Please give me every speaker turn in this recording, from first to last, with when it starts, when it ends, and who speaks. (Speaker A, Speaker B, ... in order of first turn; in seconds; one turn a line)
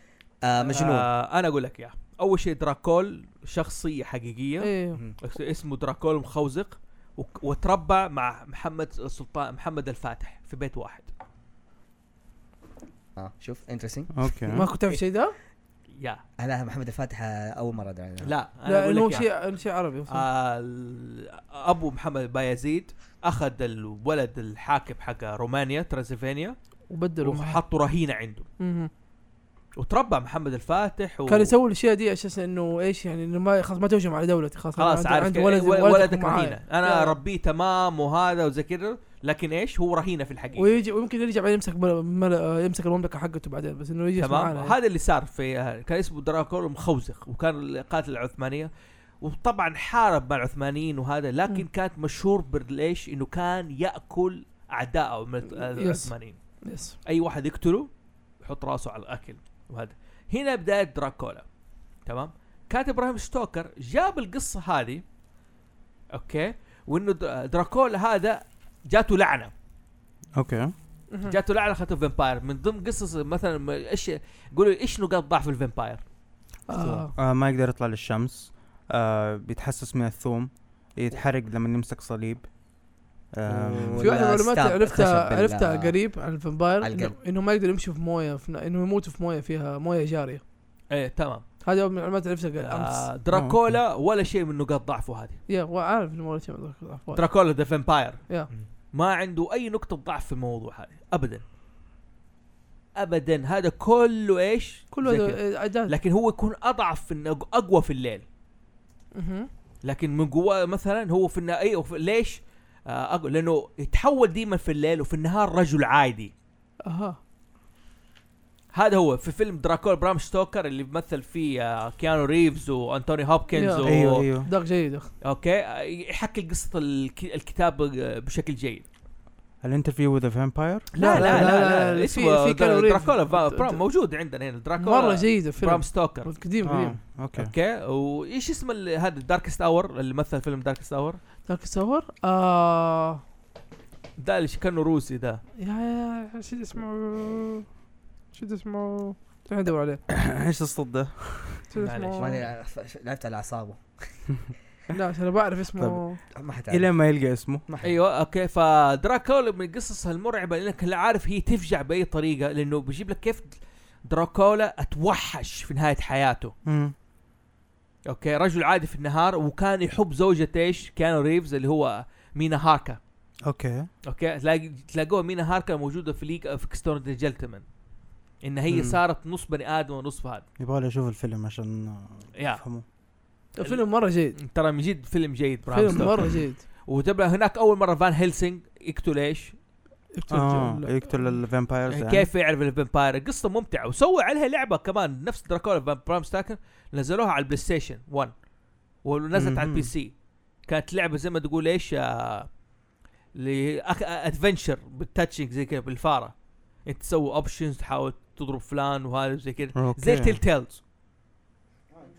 Speaker A: 0.4-1.1
Speaker B: 0.6-11.1
Speaker C: 4.6-5.0
Speaker A: 13.2-14.1
Speaker D: 14.1-14.7
Speaker C: 14.5-15.3
Speaker A: 16.4-18.3
Speaker B: 18.2-19.3
Speaker C: 18.6-20.2
Speaker B: 20.1-26.6
Speaker C: 26.9-27.6
Speaker B: 27.2-28.4
Speaker C: 28.6-28.9
Speaker B: 29.8-31.5
Speaker C: 31.3-37.2
Speaker B: 34.8-40.7
Speaker C: 40.6-44.8
Speaker B: 44.2-48.7
Speaker B: 49.2-56.4
Speaker C: 55.5-56.1
Speaker C: 56.6-57.0
Speaker B: 57.0-57.9
Speaker B: 58.4-61.4
Speaker B: 62.0-65.0
Speaker B: 66.1-69.5
Speaker D: 70.3-70.7
Speaker B: 71.2-76.0
Speaker C: 76.7-77.1
Speaker D: 76.7-82.5
Speaker D: 83.3-84.1
Speaker A: 83.5-86.0
Speaker C: 84.0-90.4
Speaker A: 86.8-87.1
Speaker B: 90.9-91.4
Speaker C: 91.6-93.1
Speaker B: 92.6-95.4
Speaker D: 93.3-93.6
Speaker C: 95.5-97.2
Speaker B: 97.1-98.4
Speaker B: 98.9-101.4
Speaker B: 102.9-108.2
Speaker C: 104.9-105.9
Speaker C: 109.1-109.5
Speaker B: 109.8-116.3
Speaker C: 116.8-117.2
Speaker B: 118.7-124.3
Speaker C: 123.5-125.1
Speaker D: 123.8-124.5
Speaker B: 125.2-128.8
Speaker D: 129.6-131.6
Speaker B: 130.9-136.3
Speaker C: 130.9-133.8
Speaker C: 134.8-137.0
Speaker D: 136.6-137.5
Speaker B: 137.3-141.2
Speaker C: 141.5-143.2
Speaker B: 144.2-145.4
Speaker C: 145.6-147.7
Speaker C: 148.3-150.0
Speaker D: 150.1-151.7
Speaker C: 151.7-152.4
Speaker B: 151.8-152.4
Speaker A: 152.2-153.8
Speaker C: 154.9-156.2
Speaker D: 155.8-156.0
Speaker A: 156.3-156.9
Speaker D: 156.7-157.6
Speaker A: 157.7-158.0
Speaker B: 157.8-163.6
Speaker B: 164.1-166.5
Speaker D: 166.6-166.9
Speaker B: 168.1-173.0
Speaker D: 173.4-173.9
Speaker B: 174.1-177.6
Speaker B: 178.4-180.4
Speaker D: 178.7-179.0
Speaker D: 180.6-182.8
Speaker B: 182.3-182.6
Speaker C: 183.6-184.3
Speaker B: 184.4-189.5
Speaker C: 185.7-186.6
Speaker C: 190.1-191.3
Speaker D: 190.3-192.3
Speaker B: 191.9-198.3
Speaker B: 199.0-200.1
Speaker D: 199.3-199.9
Speaker B: 200.7-202.5
Speaker B: 203.3-210.8
Speaker D: 209.7-210.4